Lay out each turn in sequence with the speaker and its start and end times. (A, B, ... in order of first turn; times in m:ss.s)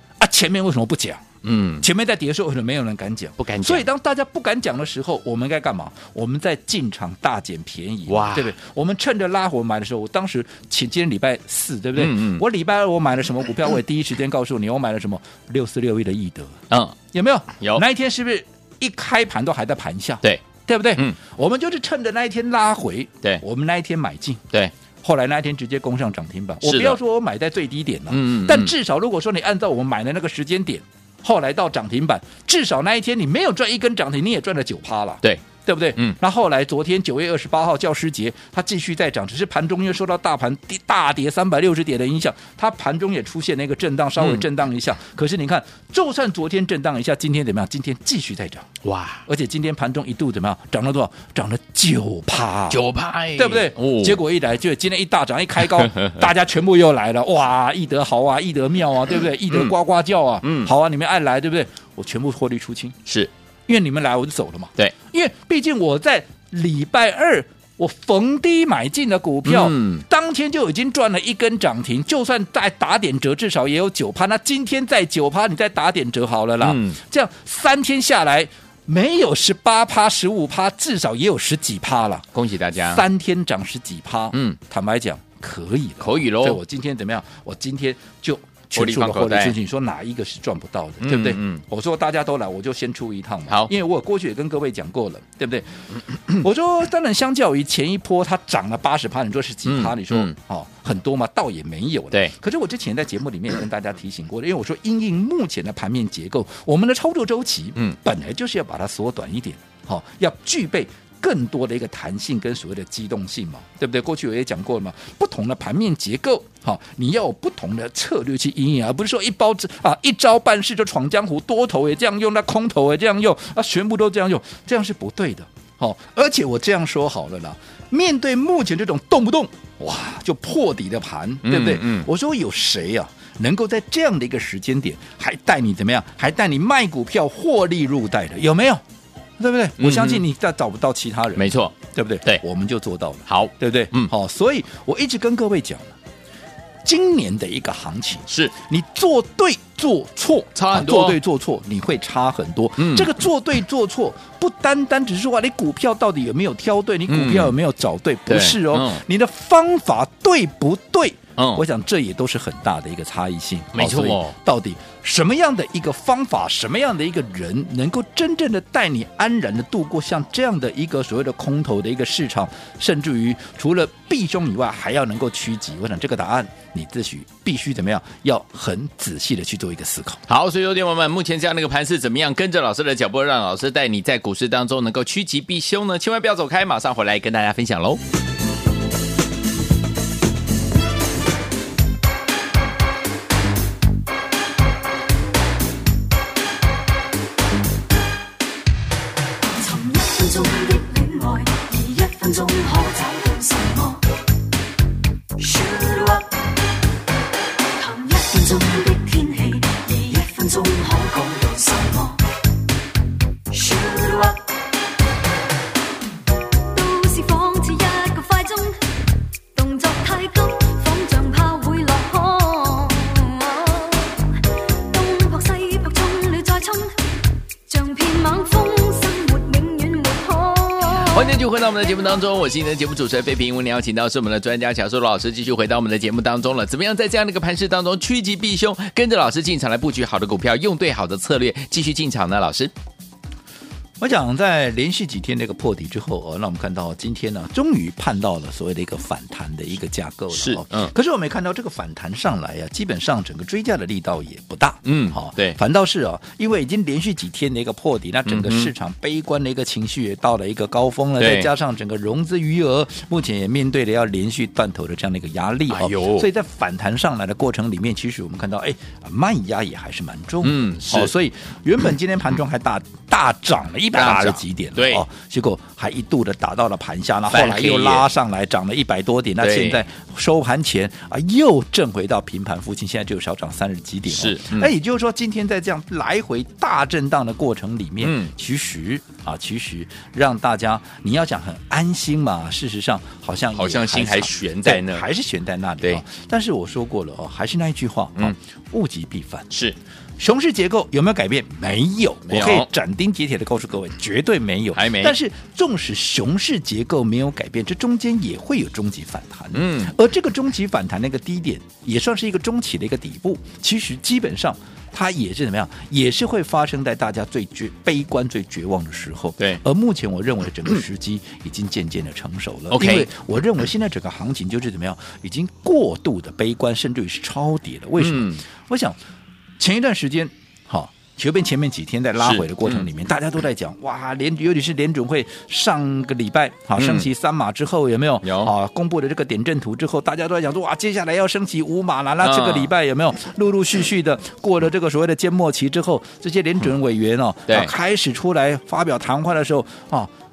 0:00.2-0:01.2 A
0:01.4-0:01.8 B
0:01.8-0:16.6 A
0:03.4-0:03.9 B
0:08.1-0:08.5 B
0:12.0-0:12.4 B
0:16.7-0:17.0 B
0:17.1-0:24.4 A
0:25.0-0:48.7 A
0:26.6-0:27.0 B
0:28.1-0:28.7 B
0:44.2-0:44.4 B
0:48.8-0:49.2 B
0:49.2-1:03.0 A
0:52.7-0:54.2 B
0:55.7-0:56.2 B
0:59.5-0:59.7 B
1:00.4-1:00.7 B
1:03.0-1:03.3 B
1:03.7-2:18.8 A
1:09.4-1:10.0 B
1:16.6-1:17.0 B
1:22.3-1:23.0 B
1:24.3-1:24.6 B
1:26.0-1:26.6 B
1:28.7-1:29.6 B
1:31.0-1:31.6 B
1:39.6-1:40.3 B
2:11.4-2:12.1 B
2:19.4-2:25.9 A
2:19.8-2:20.2 B
2:21.4-2:22.4 B
2:23.3-2:24.1 B
2:26.8-3:00.2 A
2:28.3-2:28.5 B
2:30.5-2:31.2 B
2:32.8-2:33.1 B
2:37.1-2:37.5 B
2:38.3-2:39.0 B
2:41.4-2:41.6 B
2:43.7-2:44.3 B
3:00.3-3:08.0 B
3:19.4-3:24.1 C
3:25.4-3:26.5 C
3:27.7-3:32.2 C
3:33.5-3:34.5 C
3:36.7-3:38.9 C
3:39.5-3:47.0 C
3:47.7-3:51.4 C
3:51.0-4:02.7 B
4:04.0-4:59.5 A
4:10.3-4:10.9 B
4:14.8-4:15.6 B
4:18.2-4:18.7 B
4:21.2-4:21.5 B
4:25.7-4:26.3 B
4:30.4-4:31.1 B
4:33.9-4:35.0 B
4:37.3-4:38.1 B
4:39.4-4:39.8 B
4:44.1-4:44.7 B
4:48.0-4:48.3 B
4:53.5-4:55.1 B
4:59.5-4:59.8 B
5:00.2-5:29.0 A
5:02.3-5:02.7 B
5:04.7-5:05.2 B
5:09.5-5:09.9 B
5:22.7-5:23.1 B
5:28.0-5:28.4 B
5:29.6-5:50.1 A
5:32.2-5:32.8 B
5:36.8-5:37.1 B
5:38.2-5:38.5 B
5:42.2-5:42.7 B